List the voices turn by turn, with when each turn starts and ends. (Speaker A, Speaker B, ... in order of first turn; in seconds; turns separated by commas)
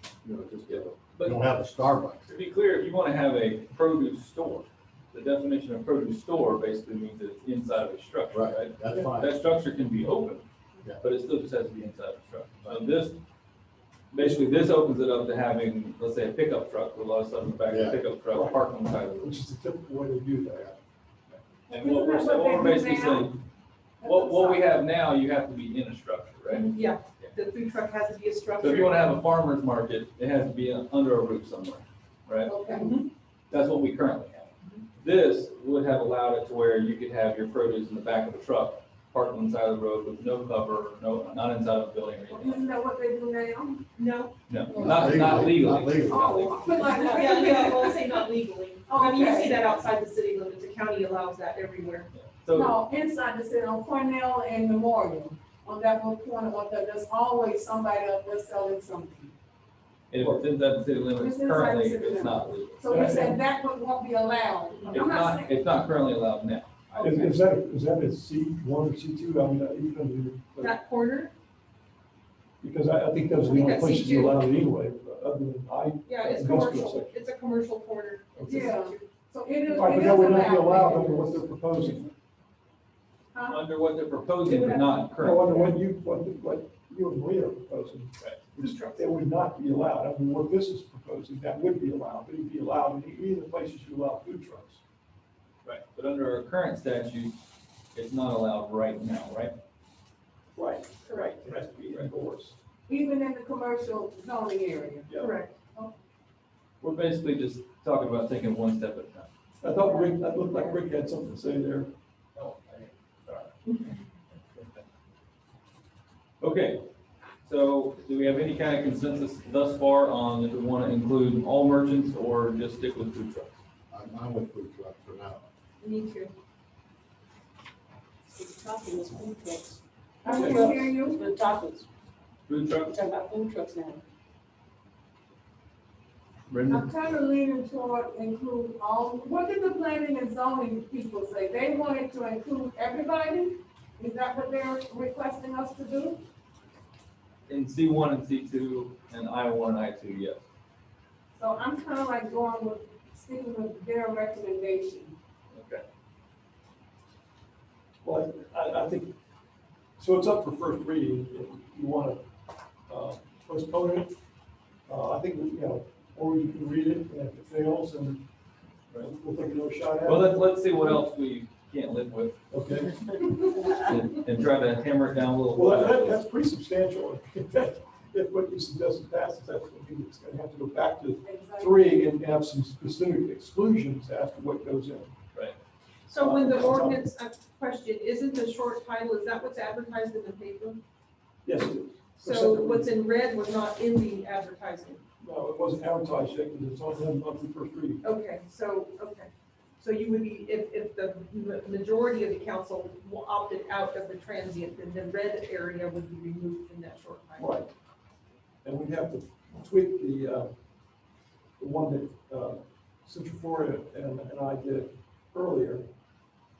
Speaker A: 0.2-2.4, Speaker B: 0.7-1.4, Speaker B: 2.3-10.4, Speaker A: 8.3-9.3, Speaker B: 11.0-13.2, Speaker B: 14.1-19.4, Speaker A: 17.7-18.0, Speaker C: 18.3-20.7, Speaker B: 21.7-23.4, Speaker D: 21.7-23.3, Speaker D: 24.0-24.6, Speaker B: 24.0-27.3, Speaker E: 26.5-29.2, Speaker B: 28.6-32.5, Speaker D: 32.5-33.0, Speaker E: 32.7-33.0, Speaker B: 33.5-42.7, Speaker D: 42.4-43.8, Speaker E: 44.0-44.3, Speaker B: 44.5-46.7, Speaker A: 44.7-46.5, Speaker D: 46.1-48.1, Speaker E: 46.8-52.1, Speaker D: 48.9-49.5, Speaker B: 52.1-52.8, Speaker D: 52.5-59.3, Speaker B: 60.1-63.2, Speaker C: 60.2-60.4, Speaker D: 61.2-65.5, Speaker C: 62.9-63.4, Speaker B: 64.9-67.2, Speaker C: 67.0-70.8, Speaker E: 70.6-71.3, Speaker C: 72.6-77.2, Speaker E: 73.4-74.4, Speaker E: 76.1-79.1, Speaker C: 78.4-78.7, Speaker D: 78.5-81.4, Speaker E: 79.6-80.5, Speaker C: 79.7-82.0, Speaker B: 83.5-85.5, Speaker E: 84.4-85.7, Speaker C: 85.2-94.8, Speaker B: 88.2-88.4, Speaker E: 88.6-89.0, Speaker B: 95.7-97.4, Speaker B: 98.0-99.5, Speaker C: 100.5-102.6, Speaker E: 101.0-101.5, Speaker D: 102.9-105.1, Speaker C: 105.1-105.3, Speaker E: 105.1-105.5, Speaker B: 106.8-109.3, Speaker C: 109.6-111.9, Speaker B: 116.4-116.8, Speaker B: 117.5-123.5, Speaker A: 123.9-125.4, Speaker E: 125.8-126.3, Speaker F: 128.3-131.9, Speaker D: 130.2-131.2, Speaker E: 130.3-130.6, Speaker B: 132.5-132.9, Speaker F: 132.9-134.0, Speaker B: 136.5-136.9, Speaker D: 136.7-146.2, Speaker B: 147.5-150.4, Speaker D: 151.4-155.2, Speaker B: 155.5-155.8, Speaker C: 158.0-159.1, Speaker C: 160.0-162.2, Speaker C: 162.9-164.1, Speaker C: 164.9-168.2, Speaker C: 169.0-170.4, Speaker B: 170.0-172.4, Speaker C: 172.5-173.0, Speaker B: 173.8-176.2, Speaker C: 175.5-185.1, Speaker D: 181.2-182.0, Speaker E: 186.1-190.8, Speaker C: 186.2-187.0, Speaker C: 191.4-192.9, Speaker E: 192.2-195.0, Speaker C: 195.2-198.0, Speaker E: 198.0-207.6, Speaker C: 207.4-207.7, Speaker C: 208.7-210.5, Speaker C: 211.6-215.9